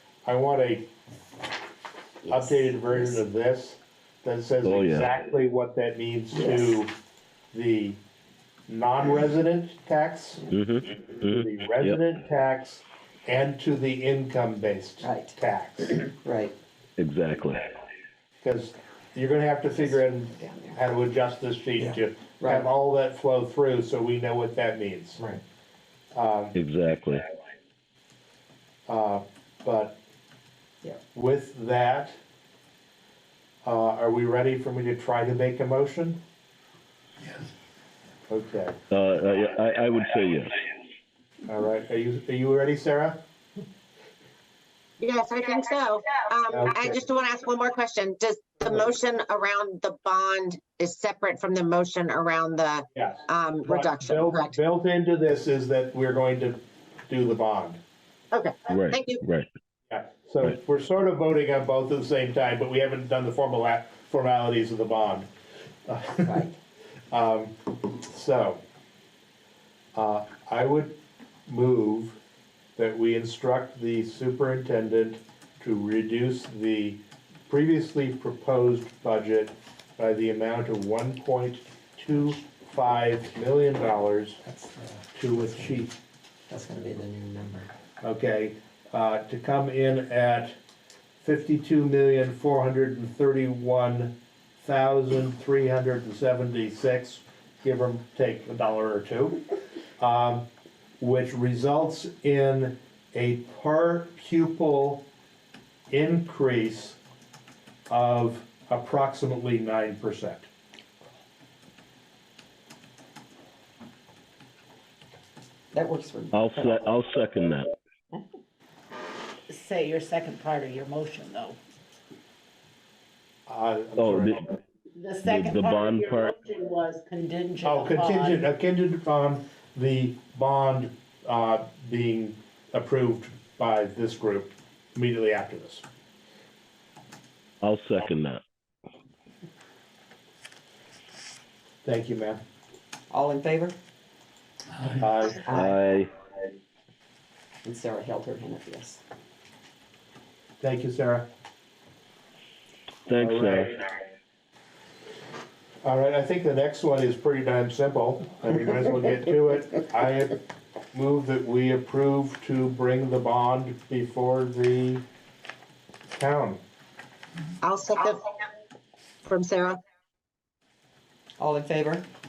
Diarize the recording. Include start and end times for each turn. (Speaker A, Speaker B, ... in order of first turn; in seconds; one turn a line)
Speaker A: 0.2-0.9
Speaker B: 2.2-3.1
Speaker A: 2.3-6.9
Speaker C: 4.6-5.1
Speaker B: 6.3-6.8
Speaker A: 7.5-8.0
Speaker A: 8.7-10.4
Speaker C: 10.5-12.0
Speaker A: 11.2-16.0
Speaker B: 15.0-15.3
Speaker B: 16.2-16.6
Speaker C: 17.0-17.7
Speaker A: 18.4-25.2
Speaker B: 19.8-20.8
Speaker B: 21.8-22.7
Speaker B: 25.2-25.4
Speaker A: 26.1-26.5
Speaker C: 26.5-27.2
Speaker A: 28.9-30.0
Speaker A: 31.1-32.2
Speaker A: 33.6-36.2
Speaker A: 38.3-38.8
Speaker C: 38.9-40.6
Speaker A: 41.5-43.2
Speaker D: 45.0-54.5
Speaker A: 46.5-47.0
Speaker A: 52.9-57.8
Speaker D: 58.3-59.2
Speaker C: 58.7-59.5
Speaker A: 59.9-65.3
Speaker A: 65.8-66.4
Speaker B: 66.2-66.5
Speaker A: 67.1-68.6
Speaker A: 69.9-72.2
Speaker A: 72.8-84.4
Speaker B: 84.5-85.8
Speaker A: 85.1-85.9
Speaker B: 86.5-87.7
Speaker A: 88.0-90.6
Speaker A: 91.2-99.4
Speaker A: 100.0-100.5
Speaker A: 101.0-105.1
Speaker A: 105.9-107.0
Speaker A: 107.9-110.5
Speaker B: 115.7-116.8
Speaker C: 116.3-117.7
Speaker E: 119.5-121.6
Speaker A: 123.5-124.4
Speaker C: 124.0-124.4
Speaker E: 125.0-128.5
Speaker C: 125.2-126.3
Speaker A: 127.6-135.8
Speaker C: 137.6-138.4
Speaker A: 141.8-142.4
Speaker B: 143.1-143.8
Speaker A: 145.0-145.4
Speaker B: 145.4-145.8
Speaker C: 145.5-146.1
Speaker B: 147.6-149.0
Speaker A: 150.6-151.3
Speaker C: 153.1-153.7
Speaker A: 153.2-153.7
Speaker A: 155.8-160.4
Speaker A: 160.9-165.0
Speaker A: 166.1-166.6
Speaker D: 167.6-168.4
Speaker D: 169.2-169.8
Speaker B: 171.4-172.1